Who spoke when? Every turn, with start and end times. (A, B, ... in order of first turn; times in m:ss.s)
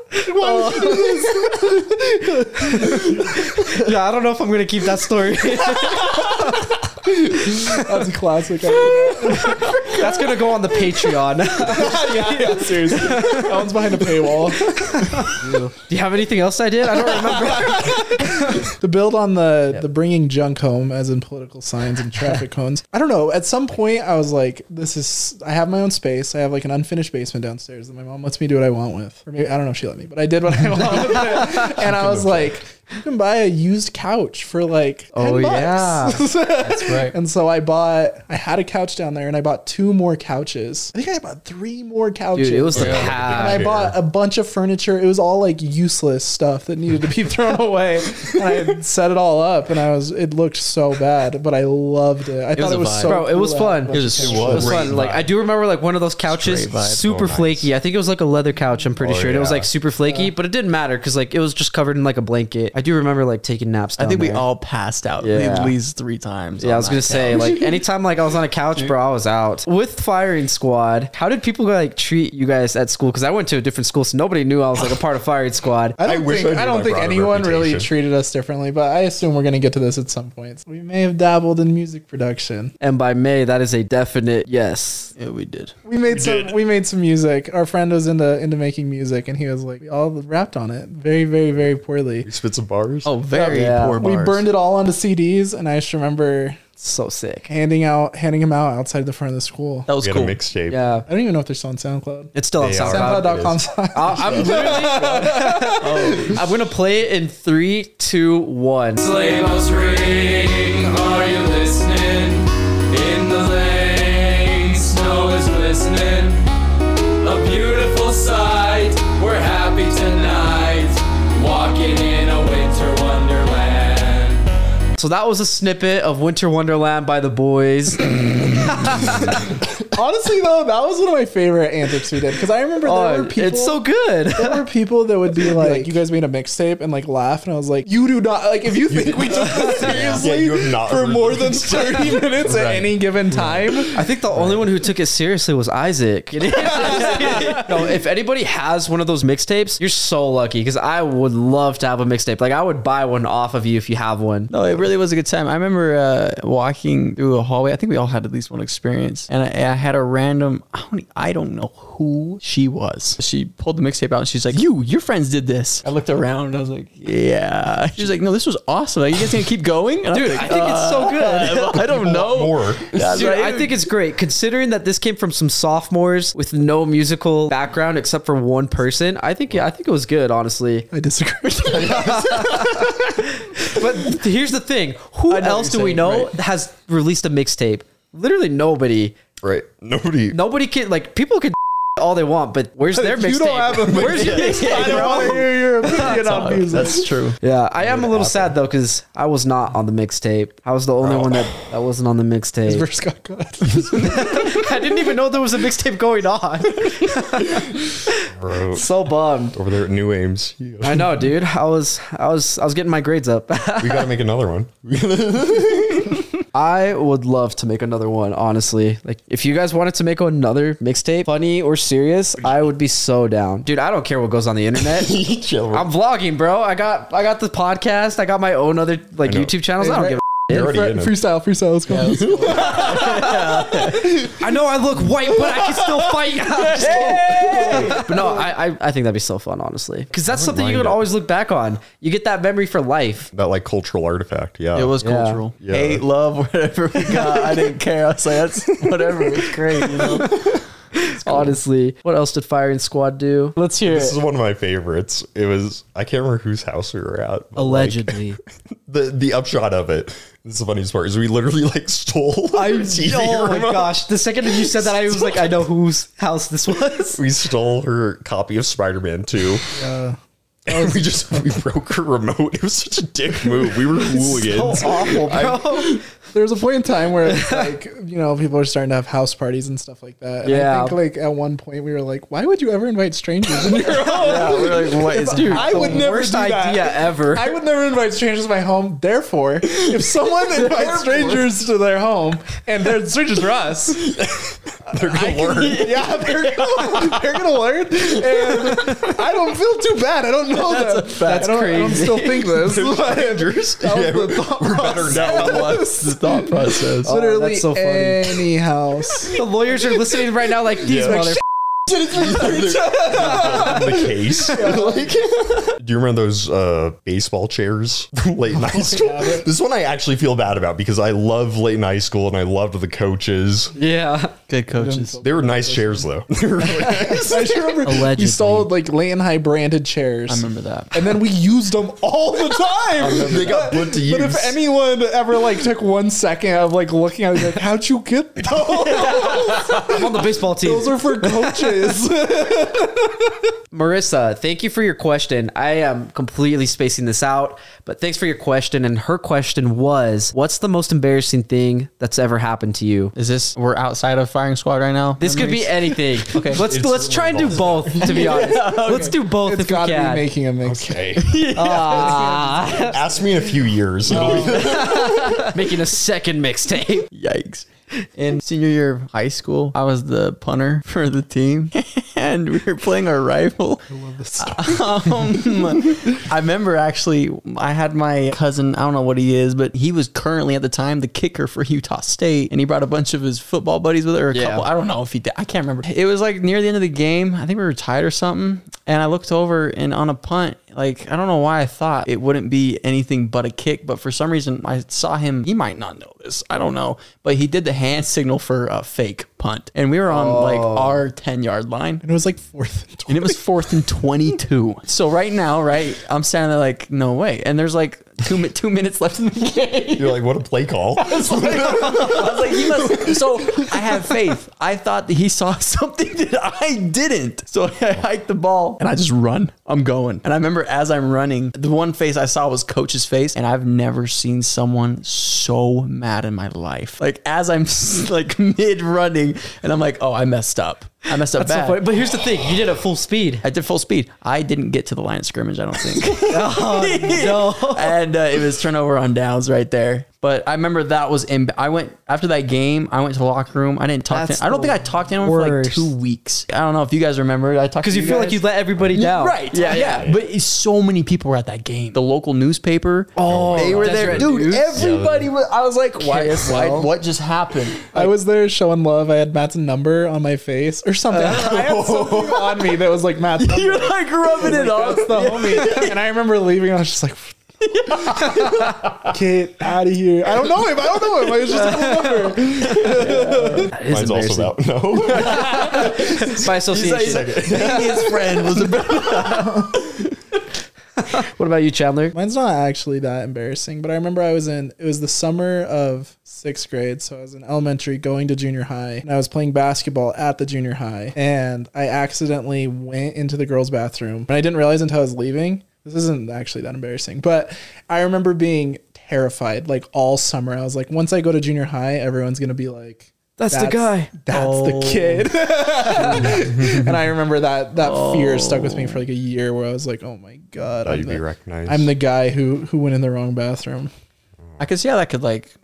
0:00.1-0:01.7 A
0:00.2-0:03.9 B
0:02.6-0:06.7 A
0:07.0-0:10.2 B
0:07.3-0:08.0 A
0:08.8-0:18.7 A
0:11.6-0:15.5 B
0:16.9-0:54.8 B
0:30.9-0:32.6 C
0:35.1-0:36.3 A
0:36.6-0:37.2 D
0:42.4-0:43.7 A
0:42.8-0:44.0 C
0:42.8-0:43.1 D
0:52.6-0:53.2 D
0:53.1-1:04.5 A
0:53.9-0:55.1 D
0:54.2-0:55.3 C
0:56.3-0:57.1 D
0:57.0-0:57.7 C
0:59.0-0:59.7 C
1:00.1-1:00.3 B
1:04.0-1:07.6 D
1:05.2-1:05.8 A
1:06.6-1:16.0 A
1:16.0-1:22.7 B
1:16.0-1:17.9 C
1:22.8-1:25.1 A
1:25.2-1:25.7 D
1:25.9-1:32.3 B
1:26.1-1:26.6 C
1:32.2-1:33.1 C
1:33.0-1:34.5 D
1:33.3-1:34.0 A
1:34.0-1:36.6 B
1:36.8-1:37.5 A
1:37.5-1:39.9 B
1:39.9-1:40.4 D
1:40.0-1:40.8 C
1:40.7-1:41.1 A
1:41.1-1:46.4 B
1:42.3-1:43.3 A
1:42.6-1:43.6 C
1:43.9-1:49.0 A
1:44.2-1:44.6 C
1:45.8-1:46.4 D
1:49.0-1:56.5 E
1:57.2-2:04.5 E
2:05.0-2:09.5 A
2:09.9-2:13.8 B
2:12.8-2:14.6 A
2:14.4-2:24.0 B
2:15.4-2:16.0 A
2:18.8-2:24.6 C
2:19.5-2:20.2 A
2:23.9-2:34.5 A
2:26.5-2:27.9 B
2:34.5-2:53.9 D
2:50.1-2:51.9 A
2:51.9-2:53.2 C
2:53.0-3:00.9 A
3:00.9-3:02.3 B
3:01.7-3:03.0 C
3:01.8-3:09.2 A
3:05.3-3:06.3 D
3:09.4-3:10.4 C
3:10.3-3:16.1 A
3:12.9-3:17.1 B
3:13.8-3:15.2 C
3:14.1-3:17.4 D
3:16.7-3:17.1 C
3:17.4-3:22.8 A
3:17.8-3:18.6 C
3:21.0-3:21.6 C
3:22.7-3:24.7 B
3:23.9-3:29.6 A
3:28.3-3:28.9 C
3:29.5-3:31.1 C
3:30.8-3:34.1 A
3:33.8-3:36.2 C
3:36.5-3:45.2 A
3:42.4-3:42.7 C
3:44.8-3:45.9 C
3:45.7-3:50.2 A
3:49.2-3:49.5 C
3:49.8-3:53.3 B
3:50.5-3:51.2 C
3:51.9-3:54.3 D
3:52.3-3:52.8 C
3:52.5-4:03.3 A
3:56.5-3:58.1 D
3:56.8-3:58.5 B
3:57.6-3:58.0 C
4:00.2-4:01.1 C
4:03.3-4:05.0 C
4:04.7-4:10.6 D
4:05.0-4:05.4 A
4:05.6-4:06.0 C
4:07.0-4:07.7 A
4:09.4-4:14.2 A
4:11.2-4:11.6 D
4:13.9-4:18.2 C
4:17.6-4:18.4 A
4:18.9-4:25.6 C
4:22.5-4:27.2 A
4:27.1-4:29.6 C
4:29.7-4:31.2 B
4:30.7-4:36.0 C
4:34.2-4:36.0 A
4:36.3-4:54.2 B
4:37.3-4:37.7 A
4:40.4-4:41.0 A
4:43.7-4:47.5 A
4:44.0-4:46.0 D
4:50.6-4:51.4 A
4:54.0-4:56.2 C
4:54.9-5:09.4 B
4:58.7-4:59.1 A
5:00.5-5:02.3 D
5:01.3-5:02.3 A
5:02.5-5:05.9 C
5:05.0-5:07.1 D
5:07.0-5:08.4 A
5:09.3-5:11.4 A
5:10.8-5:23.8 C
5:12.2-5:15.2 B
5:18.5-5:19.5 B
5:23.8-5:24.3 A
5:24.5-5:25.2 D
5:24.8-5:26.1 B
5:25.2-5:27.8 C
5:26.6-5:28.7 A
5:26.8-5:43.4 B
5:30.3-5:31.0 D
5:33.0-5:34.6 C
5:33.0-5:33.4 A
5:38.7-5:41.8 A
5:38.9-5:40.0 D
5:43.7-5:53.1 A
5:53.2-5:56.6 D
5:55.2-6:00.3 A
5:56.5-5:58.3 C
5:58.0-5:59.2 D
5:58.3-6:03.4 B
6:00.6-6:01.4 C
6:01.2-6:02.3 D
6:01.4-6:03.0 A
6:02.9-6:05.2 C
6:04.1-6:04.9 B
6:04.1-6:05.5 D
6:04.2-6:07.1 A
6:07.1-6:42.0 D
6:13.9-6:14.9 B
6:24.3-6:24.6 A
6:40.1-6:41.0 A
6:42.0-6:43.4 B
6:43.1-6:50.2 D
6:50.0-6:53.8 C
6:51.0-7:11.8 D
6:51.8-6:52.2 A
7:11.3-7:13.4 A
7:12.0-7:12.6 C
7:13.4-7:28.4 D
7:16.2-7:18.0 A
7:24.1-7:25.9 A
7:27.8-7:30.1 A
7:28.8-7:29.0 C
7:28.9-7:38.1 D
7:29.6-7:30.2 C
7:33.2-7:34.9 A
7:33.3-7:35.3 C
7:36.0-7:36.9 A
7:37.9-7:48.4 B
7:41.1-7:42.6 D
7:41.3-7:42.4 C
7:43.4-7:46.0 D
7:47.6-7:48.7 D
7:48.1-7:48.8 A
7:49.0-7:53.7 B
7:51.5-7:54.6 A
7:52.8-7:53.7 D
7:53.9-7:58.1 C
7:55.1-8:00.1 D
7:55.1-7:57.7 A
7:59.2-7:59.8 B
8:01.0-8:02.2 A
8:02.1-8:33.9 B
8:23.4-8:24.1 A
8:24.3-8:25.3 D
8:26.0-8:26.4 D
8:26.3-8:26.9 C
8:27.8-8:29.0 D
8:30.8-8:31.9 C
8:34.6-8:35.5 D